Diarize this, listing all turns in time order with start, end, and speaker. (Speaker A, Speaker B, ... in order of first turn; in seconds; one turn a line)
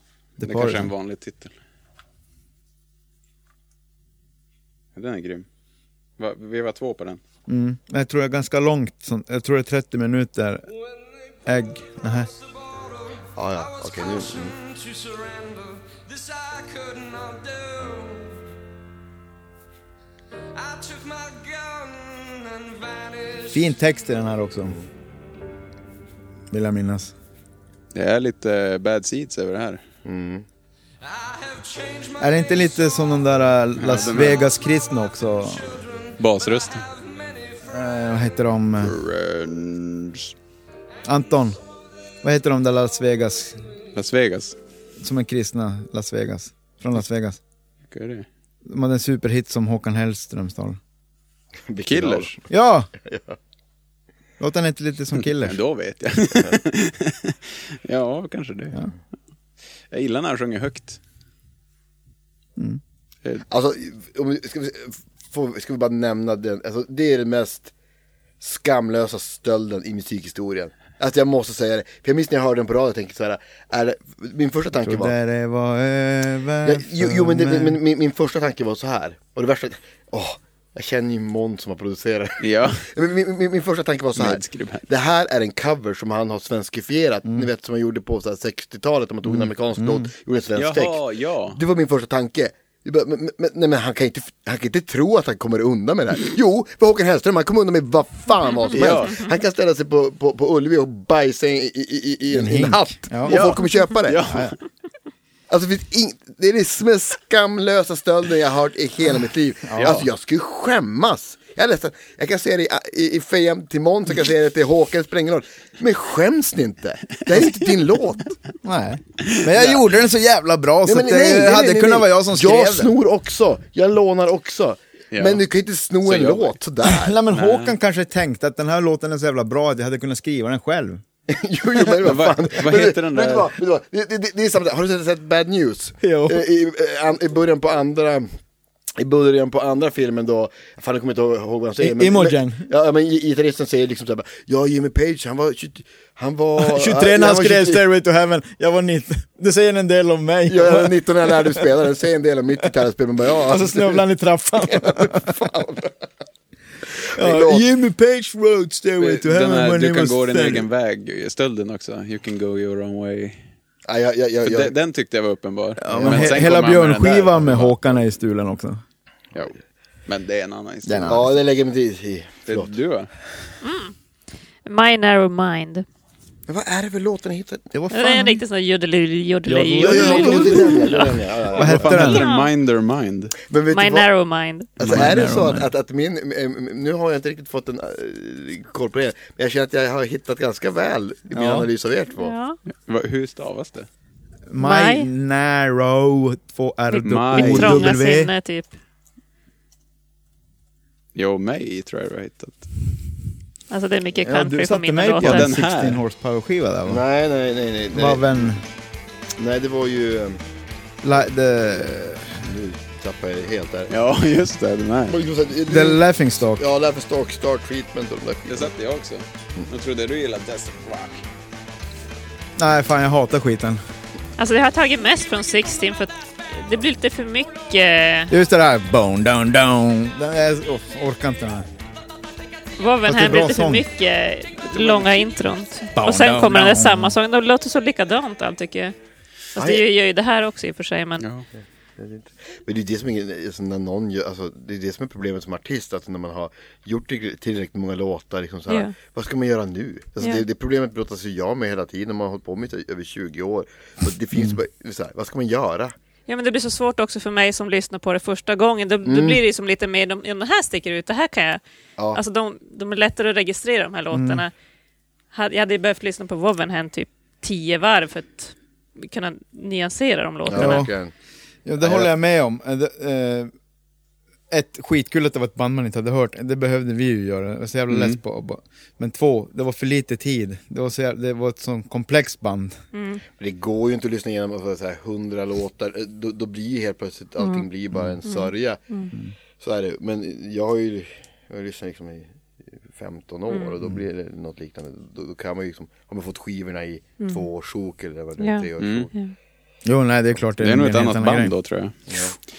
Speaker A: 0.4-0.9
Speaker B: 0.4-1.5
Speaker B: 4.9-5.5
Speaker B: 6.2-7.2
Speaker A: 7.5-10.7
Speaker A: 11.4-12.3
Speaker C: 12.7-18.4
Speaker D: 13.3-14.5
Speaker C: 20.5-23.7
Speaker A: 23.5-24.8
Speaker A: 26.5-27.1
Speaker B: 27.9-29.8
Speaker D: 30.0-30.4
Speaker C: 31.0-32.8
Speaker A: 32.2-35.7
Speaker B: 33.8-34.5
Speaker C: 35.5-37.6
Speaker B: 36.2-36.8
Speaker A: 37.7-39.0
Speaker B: 38.8-40.3
Speaker A: 41.0-41.6
Speaker A: 42.2-43.6
Speaker B: 43.9-44.6
Speaker A: 45.0-47.4
Speaker B: 47.9-48.3
Speaker A: 48.6-50.8
Speaker D: 51.7-52.4
Speaker B: 51.8-52.3
Speaker A: 52.5-52.9
Speaker D: 53.0-53.4
Speaker A: 54.4-55.6
Speaker B: 55.2-58.8
Speaker B: 59.9-61.0
Speaker D: 63.5-67.7
Speaker D: 68.4-75.1
Speaker A: 74.8-77.8
Speaker D: 76.6-104.2
Speaker B: 82.4-82.8
Speaker B: 84.2-84.8
Speaker A: 89.8-90.1
Speaker B: 90.5-91.6
Speaker B: 98.7-99.3
Speaker A: 102.3-103.5
Speaker B: 103.2-104.5
Speaker A: 104.3-104.5
Speaker D: 105.5-118.3
Speaker A: 109.6-110.0
Speaker B: 109.8-110.0
Speaker A: 118.6-122.9
Speaker D: 120.8-127.2
Speaker B: 125.1-125.4
Speaker B: 126.0-126.5
Speaker A: 126.8-131.0
Speaker B: 127.3-127.7
Speaker D: 131.3-138.3
Speaker B: 132.0-133.5
Speaker A: 136.0-136.4
Speaker D: 139.0-147.8
Speaker A: 141.8-142.7
Speaker A: 146.6-151.6
Speaker D: 150.5-154.0
Speaker A: 153.4-155.3
Speaker D: 154.6-156.1
Speaker D: 157.0-157.6
Speaker A: 157.1-160.7
Speaker B: 159.0-163.4
Speaker D: 163.8-164.7
Speaker B: 164.4-168.0
Speaker A: 165.8-168.8
Speaker D: 165.9-166.5
Speaker B: 170.1-171.3
Speaker A: 170.8-171.2
Speaker D: 171.0-172.8
Speaker B: 172.4-173.1
Speaker E: 173.6-173.9
Speaker E: 174.6-175.8
Speaker D: 176.5-177.7
Speaker A: 177.7-178.4
Speaker E: 177.9-181.1
Speaker A: 179.4-180.9
Speaker D: 179.8-182.1
Speaker A: 181.6-182.2
Speaker B: 181.6-183.4
Speaker E: 182.1-182.5
Speaker D: 183.4-184.1
Speaker E: 183.7-184.7
Speaker D: 184.8-192.3
Speaker A: 184.8-185.7
Speaker A: 191.3-191.7
Speaker E: 192.2-192.6
Speaker B: 192.8-193.9
Speaker A: 194.5-198.3
Speaker E: 194.6-195.1
Speaker E: 196.9-198.7
Speaker B: 197.0-197.9
Speaker B: 201.1-202.7
Speaker E: 203.7-205.4
Speaker A: 204.2-207.0
Speaker B: 205.2-206.0
Speaker D: 206.9-208.6
Speaker A: 207.9-208.6
Speaker D: 209.3-210.4
Speaker A: 211.0-212.4
Speaker D: 211.7-213.9
Speaker B: 213.9-215.2
Speaker D: 215.1-218.7
Speaker A: 215.7-216.6
Speaker B: 218.5-221.2
Speaker A: 222.6-223.8
Speaker E: 224.4-228.3
Speaker A: 228.3-231.7
Speaker E: 232.8-238.9
Speaker A: 233.1-233.8
Speaker D: 234.7-235.1
Speaker A: 235.9-237.2
Speaker E: 239.5-241.2
Speaker D: 239.6-239.8
Speaker B: 241.2-241.4
Speaker D: 242.0-255.9
Speaker E: 248.7-248.9
Speaker E: 256.3-261.6
Speaker D: 259.0-259.4
Speaker E: 262.1-264.5
Speaker A: 264.1-264.4
Speaker E: 265.3-270.9
Speaker D: 270.4-271.1
Speaker A: 270.5-270.9
Speaker A: 271.6-273.5
Speaker D: 271.8-272.1
Speaker A: 274.5-282.8
Speaker B: 277.9-278.2
Speaker E: 282.9-283.2
Speaker D: 283.4-288.8
Speaker E: 287.4-287.6
Speaker E: 288.2-289.1
Speaker D: 289.6-299.1
Speaker E: 298.4-299.3
Speaker B: 298.8-299.1
Speaker A: 299.9-301.5
Speaker B: 300.6-302.1
Speaker D: 302.1-302.3